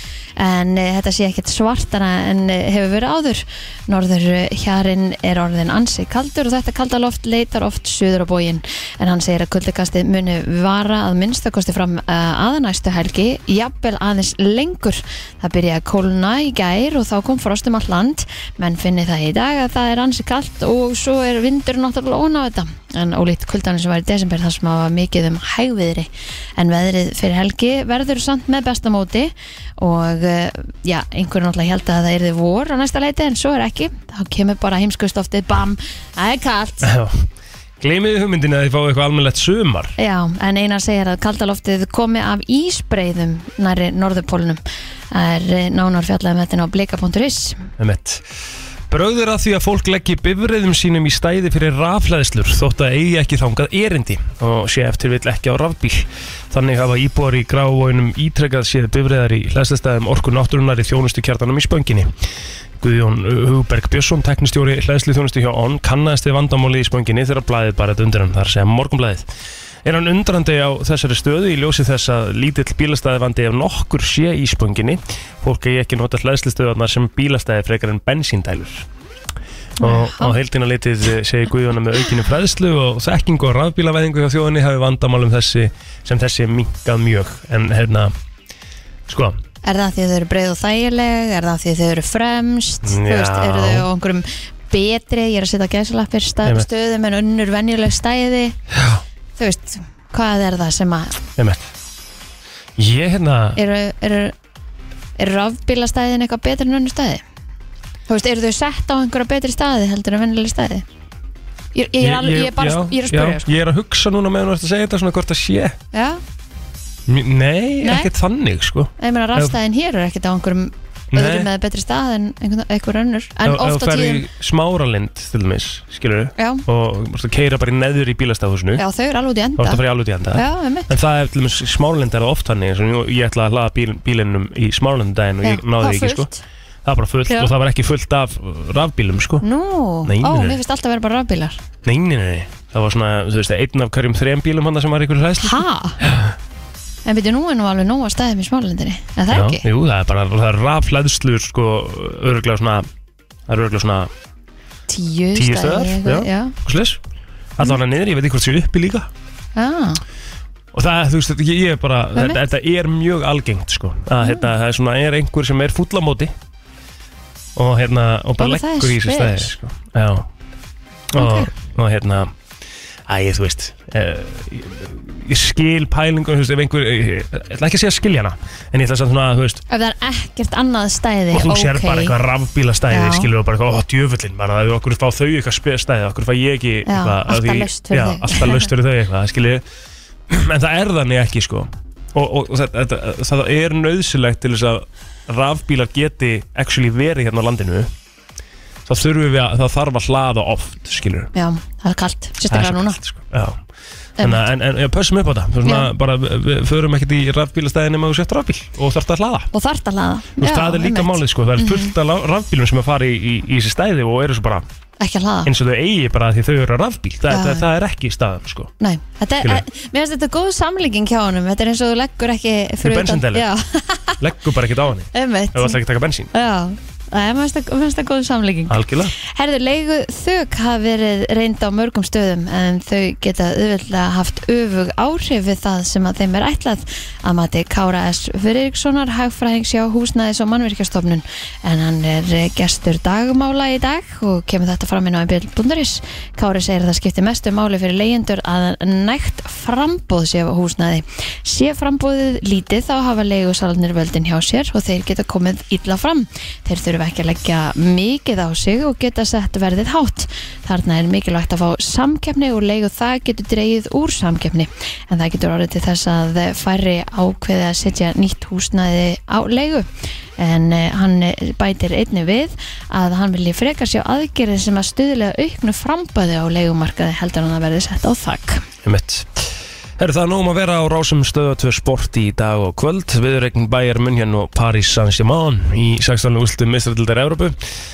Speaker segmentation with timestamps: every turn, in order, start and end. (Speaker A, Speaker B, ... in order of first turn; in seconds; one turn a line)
Speaker A: 0.4-36.9
Speaker B: 36.8-37.3
Speaker B: 37.8-39.9
Speaker A: 40.0-47.7
Speaker B: 47.8-48.2
Speaker B: 48.9-62.1
Speaker B: 62.8-69.3
Speaker B: 69.8-78.9
Speaker A: 79.8-80.4
Speaker B: 79.8-88.1
Speaker B: 89.1-89.4
Speaker A: 89.6-98.6
Speaker B: 92.8-93.9
Speaker B: 98.7-99.0
Speaker A: 99.4-101.2
Speaker B: 101.4-101.7
Speaker B: 102.8-103.6
Speaker A: 103.6-104.3
Speaker A: 105.2-107.2
Speaker A: 108.1-110.8
Speaker A: 111.7-113.5
Speaker B: 112.0-115.8
Speaker A: 115.9-116.2
Speaker B: 117.1-119.5
Speaker A: 117.8-118.1
Speaker A: 119.0-124.2
Speaker B: 121.1-121.5
Speaker B: 123.4-128.8
Speaker A: 126.4-126.6
Speaker A: 128.8-130.9
Speaker B: 129.6-136.3
Speaker A: 135.4-136.4
Speaker B: 136.8-139.4
Speaker A: 137.3-137.5
Speaker A: 139.4-141.6
Speaker B: 140.1-140.6
Speaker B: 141.8-146.3
Speaker A: 145.4-146.0
Speaker A: 147.1-149.7
Speaker B: 149.3-152.9
Speaker B: 153.5-154.1
Speaker A: 154.9-156.6
Speaker B: 155.3-157.0
Speaker B: 157.6-159.1
Speaker A: 159.6-160.0
Speaker B: 160.7-166.3
Speaker A: 164.2-164.5
Speaker B: 167.6-170.3
Speaker A: 168.4-169.5
Speaker B: 171.1-172.3
Speaker A: 171.1-171.5
Speaker B: 173.1-179.6
Speaker A: 179.7-182.2
Speaker B: 181.3-189.6
Speaker A: 182.9-183.3
Speaker A: 186.9-188.7
Speaker B: 190.3-197.9
Speaker B: 198.9-201.3
Speaker A: 201.3-203.0
Speaker B: 202.5-203.6
Speaker B: 204.2-209.5
Speaker A: 205.6-205.9
Speaker A: 209.5-211.9
Speaker B: 210.4-214.6
Speaker A: 215.0-215.5
Speaker B: 215.4-218.7
Speaker A: 217.3-217.6
Speaker A: 218.8-224.2
Speaker B: 222.8-223.5
Speaker B: 224.2-226.3
Speaker A: 225.1-225.8
Speaker A: 226.3-269.9
Speaker B: 228.7-229.1
Speaker A: 270.4-278.6
Speaker B: 278.8-287.6